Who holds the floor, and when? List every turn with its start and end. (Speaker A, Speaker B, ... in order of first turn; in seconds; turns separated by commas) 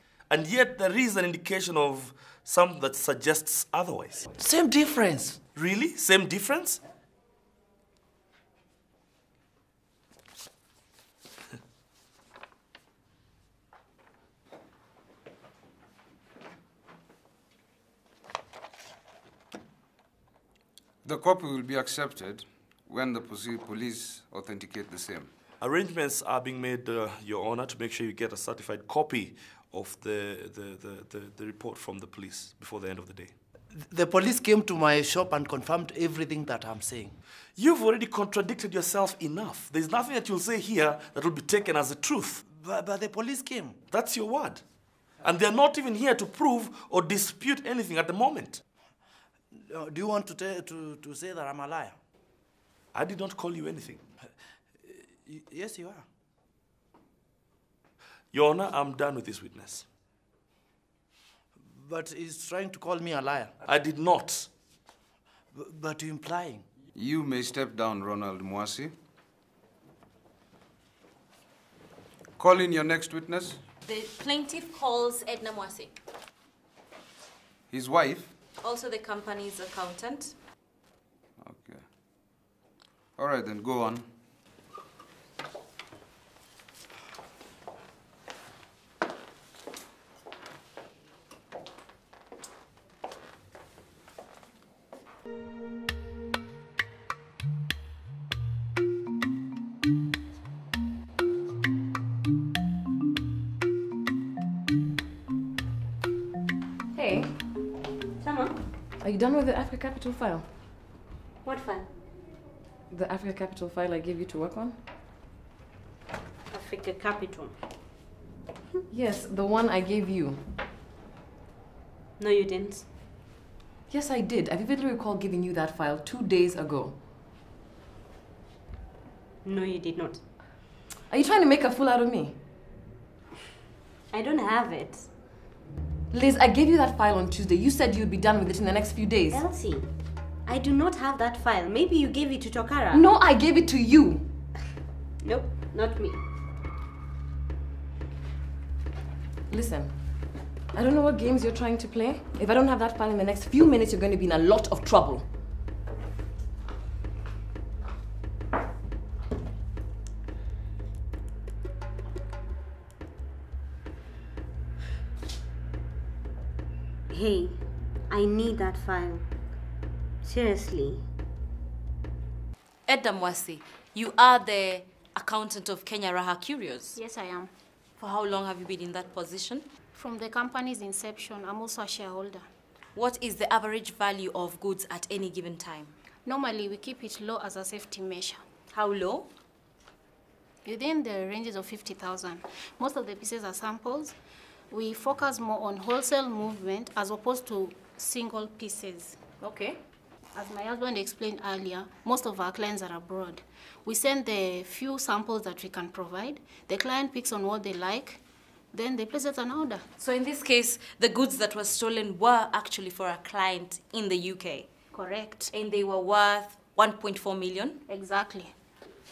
Speaker A: 0.3-4.3, Speaker B: 4.3-5.4, Speaker A: 5.5-6.8, Speaker C: 21.0-25.3, Speaker A: 25.6-33.3, Speaker B: 33.7-37.1, Speaker A: 37.6-42.4, Speaker B: 42.5-43.8, Speaker A: 43.9-44.6, Speaker A: 45.2-48.6, Speaker B: 49.5-52.0, Speaker A: 52.9-54.0, Speaker B: 54.8-56.0, Speaker A: 58.3-59.8, Speaker B: 61.6-63.5, Speaker A: 63.6-64.5, Speaker B: 65.5-66.6, Speaker C: 66.9-68.9, Speaker C: 72.4-73.6, Speaker D: 73.8-76.0, Speaker C: 77.7-78.3, Speaker D: 78.6-80.3, Speaker C: 81.4-81.8, Speaker C: 83.2-84.0, Speaker E: 106.9-107.3, Speaker F: 108.2-108.5, Speaker E: 109.0-110.5, Speaker F: 111.4-111.9, Speaker E: 112.9-114.8, Speaker F: 116.5-117.5, Speaker E: 118.9-120.4, Speaker F: 122.2-122.8, Speaker E: 123.9-127.0, Speaker F: 129.4-130.2, Speaker E: 131.1-132.4, Speaker F: 134.1-135.1, Speaker E: 136.1-139.4, Speaker F: 139.3-139.9, Speaker F: 140.4-143.0, Speaker E: 142.9-144.3, Speaker F: 145.2-146.2, Speaker E: 149.5-149.9, Speaker E: 150.7-155.3, Speaker F: 167.1-169.2, Speaker F: 170.2-171.0, Speaker D: 172.9-177.0, Speaker G: 176.9-177.5, Speaker D: 178.0-179.6, Speaker G: 179.9-182.4, Speaker D: 182.9-185.9, Speaker G: 186.2-188.4, Speaker D: 188.7-189.3, Speaker G: 190.6-194.2, Speaker G: 194.7-199.2, Speaker D: 199.4-199.8, Speaker G: 200.3-208.2, Speaker G: 208.7-209.8, Speaker D: 210.0-214.7, Speaker G: 214.9-215.5, Speaker D: 215.5-217.8, Speaker G: 217.9-218.5